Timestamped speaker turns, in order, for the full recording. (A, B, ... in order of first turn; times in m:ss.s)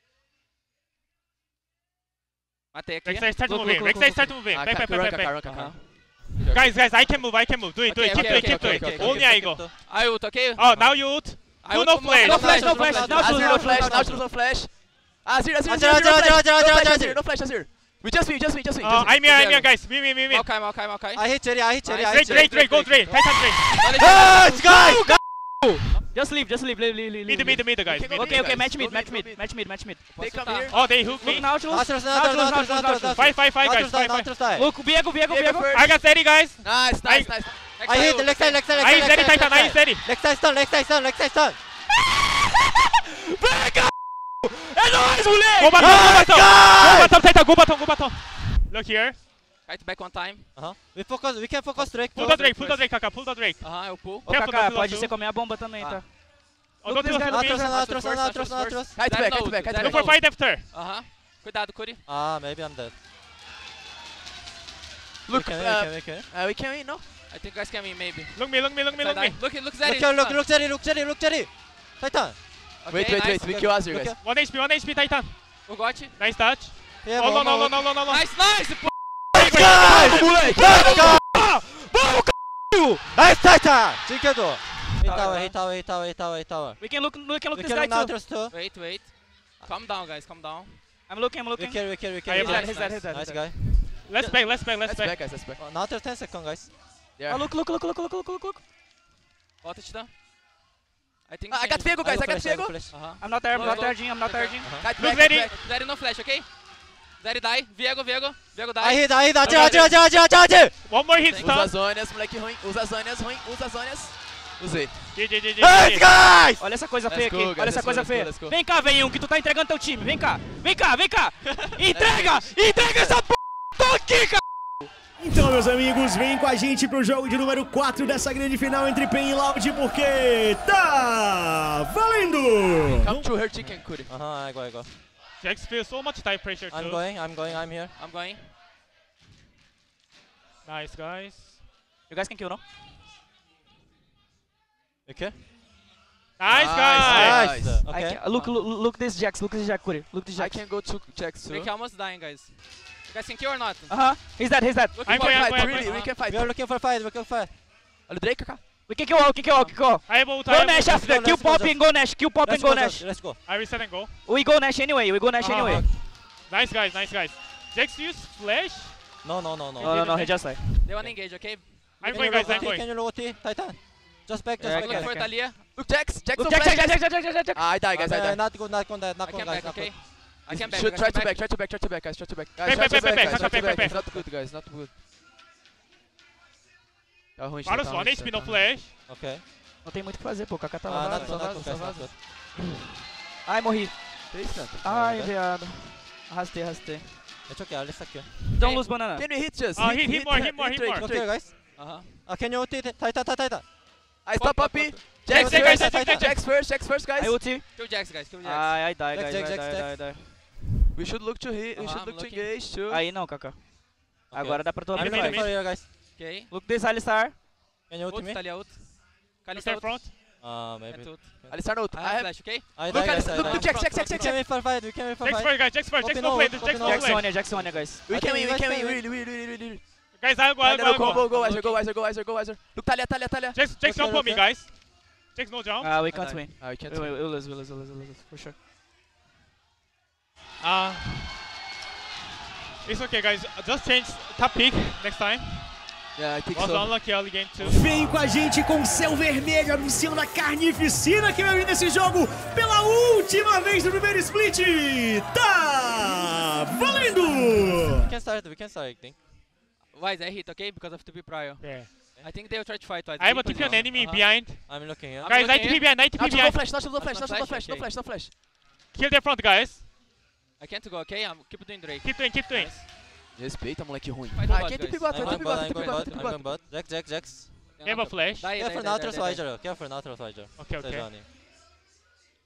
0:02.7-0:03.3 A
0:03.0-0:05.4 B
0:03.4-0:04.3 C
0:04.5-0:06.8 D
0:05.5-0:05.7 A
0:06.5-0:09.8 B
0:07.8-0:13.5 A
0:08.2-0:08.5 E
0:08.4-0:09.7 F
0:08.5-0:09.1 D
0:10.5-0:12.5 B
0:10.7-0:11.2 F
0:12.2-0:14.0 F
0:12.2-0:14.2 C
0:13.2-0:19.4 D
0:15.6-0:17.2 F
0:18.8-0:20.4 B
0:19.3-0:24.7 A
0:21.1-0:22.5 F
0:22.1-0:23.8 B
0:23.8-0:25.2 F
0:24.4-0:30.0 C
0:27.2-0:28.4 B
0:27.8-0:29.5 D
0:30.1-0:31.5 A
0:30.1-0:30.8 D
0:30.7-0:31.5 B
0:31.2-0:33.3 C
0:31.5-0:34.7 F
0:33.2-0:34.3 B
0:34.5-0:35.7 C
0:35.3-0:36.0 D
0:35.7-0:37.3 B
0:36.6-0:37.5 D
0:37.7-0:38.8 A
0:37.8-0:41.6 F
0:38.7-0:40.0 B
0:42.8-0:43.9 C
0:44.4-0:46.0 C
0:45.6-0:49.2 B
0:45.8-0:47.1 F
0:49.6-0:50.8 A
0:50.5-0:52.4 F
0:51.7-0:52.8 A
0:52.1-0:53.7 B
0:53.6-0:54.3 A
0:54.2-0:55.1 B
0:54.2-0:56.2 C
0:55.8-0:56.0 A
0:56.8-0:57.7 B
0:56.8-0:57.7 C
0:57.2-0:59.0 F
0:57.6-1:02.0 A
0:58.9-1:00.1 D
0:59.7-1:00.7 B
1:02.0-1:02.9 F
1:05.3-1:07.0 D
1:05.3-1:06.3 F
1:07.3-1:10.4 A
1:08.3-1:09.4 B
1:09.8-1:12.4 F
1:12.8-1:13.5 A
1:12.9-1:14.1 D
1:13.3-1:14.2 F
1:14.2-1:15.4 B
1:15.6-1:16.2 A
1:16.1-1:18.2 B
1:17.0-1:17.8 F
1:18.1-1:18.9 A
1:19.3-1:19.9 B
1:19.3-1:21.5 F
1:19.6-1:20.3 A
1:20.1-1:20.6 D
1:20.5-1:23.0 C
1:23.1-1:28.7 F
1:25.0-1:25.5 A
1:25.0-1:25.5 C
1:26.8-1:28.2 C
1:28.5-1:30.8 A
1:31.1-1:33.5 C
1:31.6-1:34.3 F
1:32.3-1:32.7 B
1:32.3-1:33.1 A
1:34.0-1:35.2 B
1:34.8-1:35.6 D
1:35.6-1:36.7 F
1:37.2-1:37.5 D
1:37.3-1:38.6 C
1:39.6-1:40.1 A
1:41.2-1:41.9 A
1:41.5-1:42.7 D
1:41.7-1:43.1 F
1:42.9-1:46.6 A
1:43.2-1:44.7 C
1:44.6-1:44.9 F
1:45.0-1:45.5 B
1:45.0-1:45.6 D
1:47.2-1:50.0 A
1:48.8-1:50.8 F
1:49.4-1:49.8 B
1:50.8-1:51.7 B
1:51.2-1:51.7 A
1:51.5-1:55.0 D
1:55.1-1:56.1 B
1:55.6-1:56.6 F
1:56.6-2:04.4 C
1:57.1-1:58.6 D
2:01.9-2:02.5 D
2:05.2-2:13.3 E
2:13.0-2:14.1 D
2:13.6-2:14.9 F
2:15.4-2:17.0 B
2:16.7-2:17.9 F
2:17.4-2:18.5 A
2:20.6-2:21.6 B
2:22.1-2:22.6 C
2:25.0-2:25.4 F
2:26.4-2:27.4 B
2:26.5-2:27.8 D
2:26.9-2:28.2 F
2:27.0-2:27.4 E
2:27.8-2:30.6 C
2:28.3-2:28.6 A
2:30.4-2:31.7 D
2:31.4-2:34.3 A
2:33.9-2:35.0 C
2:34.9-2:36.1 A
2:35.0-2:36.0 B
2:35.3-2:36.5 D
2:36.1-2:37.5 F
2:38.1-2:38.6 D
2:38.9-2:43.5 C
2:39.5-2:39.9 A
2:40.0-2:40.9 B
2:40.8-2:43.4 F
2:43.4-2:44.1 B
2:44.2-2:45.9 C
2:45.4-2:45.9 F
2:45.5-2:49.0 B
2:49.2-2:50.3 F
2:49.8-2:50.8 C
2:49.8-2:52.7 A
2:51.7-2:55.2 F
2:52.0-2:52.9 B
2:54.6-2:57.6 C
2:54.7-2:55.6 A
2:55.7-2:58.5 D
2:57.9-3:00.1 F
2:59.2-3:01.4 A
3:00.5-3:04.9 D
3:02.6-3:04.0 B
3:02.8-3:03.7 E
3:02.9-3:04.2 F
3:07.4-3:08.5 D
3:07.6-3:08.9 B
3:09.0-3:09.4 F
3:09.8-3:11.3 C
3:10.8-3:12.2 F
3:11.2-3:12.1 D
3:13.4-3:17.2 C
3:14.3-3:14.8 D
3:14.8-3:15.3 F
3:17.5-3:18.3 F
3:18.5-3:19.2 C
3:18.6-3:18.9 A
3:19.1-3:21.3 D
3:19.7-3:21.1 B
3:20.9-3:23.6 F
3:21.7-3:22.2 A
3:24.2-3:27.4 D
3:24.3-3:25.8 A
3:25.3-3:26.3 F
3:25.3-3:26.2 B
3:25.4-3:25.7 C
3:25.4-3:26.2 E
3:27.2-3:30.4 C
3:27.6-3:28.8 A
3:29.1-3:30.0 F
3:30.9-3:33.0 D
3:31.7-3:32.5 A
3:31.9-3:32.5 E
3:32.9-3:35.5 C
3:34.3-3:35.9 F
3:34.9-3:36.5 A
3:36.5-3:37.4 C
3:37.9-3:38.4 F
3:38.1-3:40.2 A
3:39.5-3:40.1 B
3:40.4-3:41.7 F
3:40.8-3:44.4 A
3:41.5-3:44.2 D
3:42.5-3:43.6 E
3:42.7-3:49.0 F
3:45.2-3:47.2 B
3:46.8-3:48.0 C
3:48.0-3:49.9 D
3:50.1-3:51.2 B
3:50.6-3:53.6 D
3:50.9-3:51.9 A
3:53.5-3:54.7 B
3:53.8-3:54.4 F
3:55.3-3:56.0 B
3:55.8-3:58.6 C
3:56.0-3:56.5 A
3:56.6-3:57.1 D
4:00.6-4:01.3 B
4:02.8-4:05.7 B
4:06.1-4:06.9 D
4:06.5-4:07.8 B
4:07.6-4:18.1 E
4:17.9-4:19.2 F
4:19.9-4:26.1 A
4:21.6-4:21.9 B
4:23.2-4:26.7 B
4:23.5-4:25.3 F
4:26.1-4:28.3 D
4:26.6-4:28.0 A
4:28.9-4:29.8 B
4:30.6-4:32.8 A
4:32.0-4:32.8 B
4:33.3-4:36.5 D
4:34.3-4:36.5 A
4:35.0-4:37.5 F
4:37.7-4:39.5 A
4:37.8-4:38.5 B
4:38.5-4:41.3 F
4:40.6-4:41.1 B